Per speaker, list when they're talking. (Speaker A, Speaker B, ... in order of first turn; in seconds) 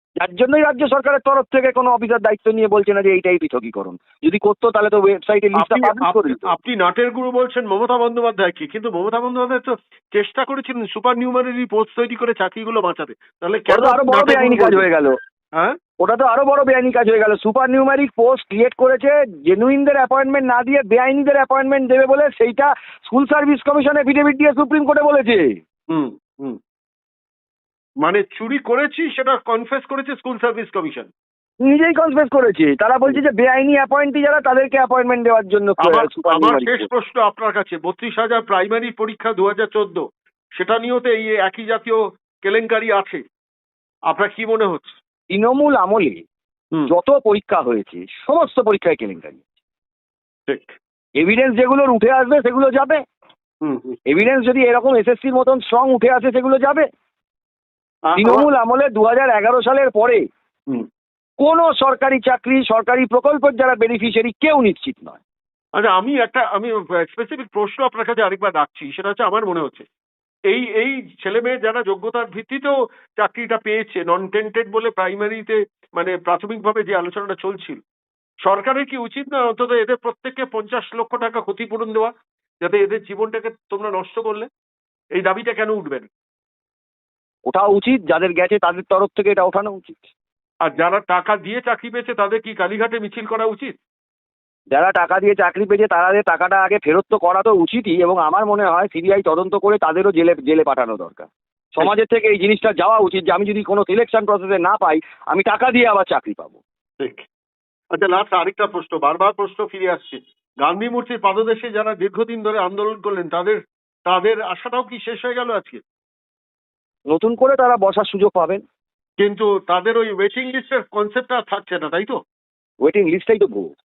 Speaker A: 0.2-6.4, 13.7-15.1, 16.0-25.5, 31.6-36.8, 45.3-46.2, 46.9-49.4, 51.2-53.0, 54.1-56.9, 58.2-60.2, 61.4-65.2, 87.5-90.0, 94.7-106.6, 117.1-118.6, 122.8-123.7
Speaker B: 5.5-14.9, 25.9-26.6, 28.0-31.1, 35.8-40.0, 40.6-43.2, 44.1-45.0, 50.5-50.8, 53.6-54.0, 58.1-58.5, 65.8-69.9, 70.5-77.8, 78.4-84.5, 85.2-86.1, 90.6-93.8, 107.0-107.3, 107.9-115.8, 119.2-122.2